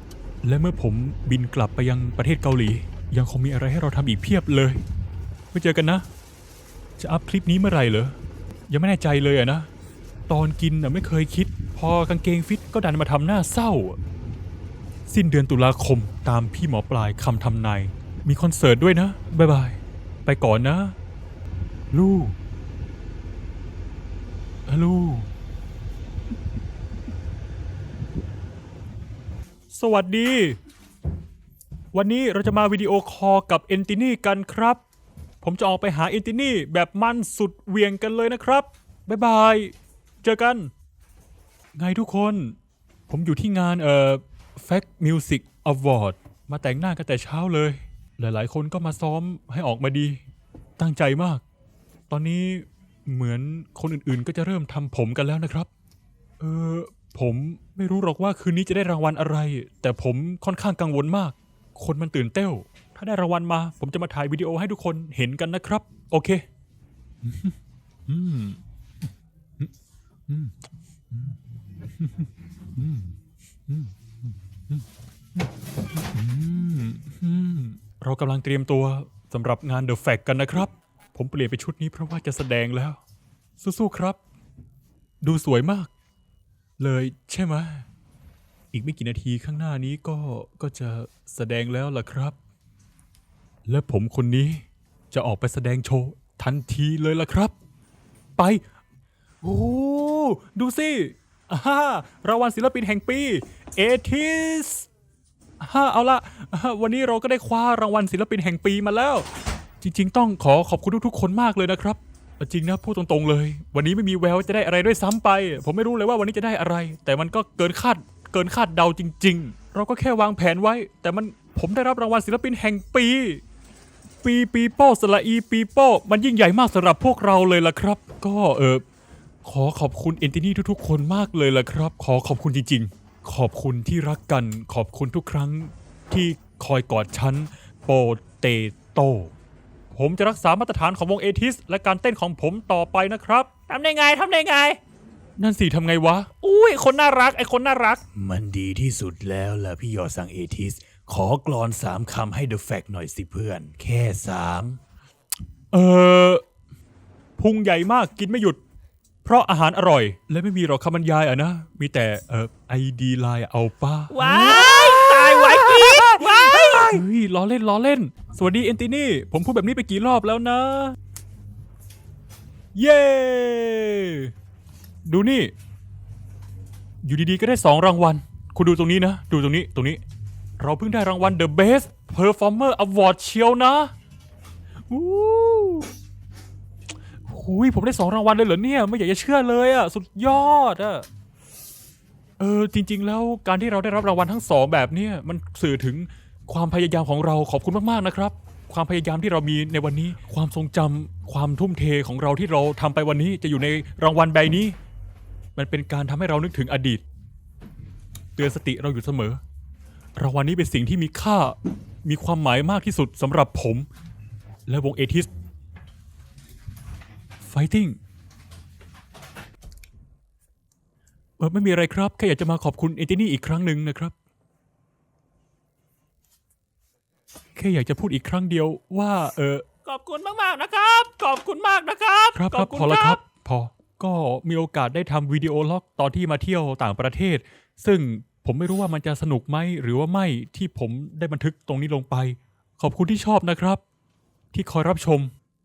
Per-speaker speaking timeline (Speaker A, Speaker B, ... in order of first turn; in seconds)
Speaker A: 0.4-4.8, 5.5-6.0, 7.0-8.2, 8.7-9.7, 10.3-14.0, 15.1-21.0, 21.9-22.4, 24.7-25.3, 29.7-30.6, 31.9-34.8, 35.4-40.7, 41.8-42.6, 43.1-50.2, 50.8-51.4, 52.1-55.7, 56.4-66.4, 67.2-67.6, 68.1-68.6, 70.3-70.6, 71.1-73.2, 73.7-74.8, 75.4-83.0, 83.6-84.2, 85.2-85.9, 86.8-87.9, 88.7-92.4, 93.7-97.5, 98.4-98.6, 99.4-104.9, 105.6-109.3, 109.8-123.4, 124.2-128.8, 129.4-139.3, 139.9-143.5, 145.4-146.3, 155.7-156.4, 157.4-158.6, 159.2-171.0, 172.8-174.3, 175.1-175.5, 177.0-180.0, 180.6-183.9, 184.9-185.9, 187.2-191.1, 192.4-204.8, 205.6-207.0, 208.4-209.4, 210.2-213.9, 214.7-215.3, 217.4-218.0, 221.4-224.1, 227.6-229.6, 232.3-243.8, 244.5-245.3
Speaker B: 143.7-144.8, 146.4-148.0, 164.1-167.0, 229.9-233.2
Speaker C: 148.2-154.8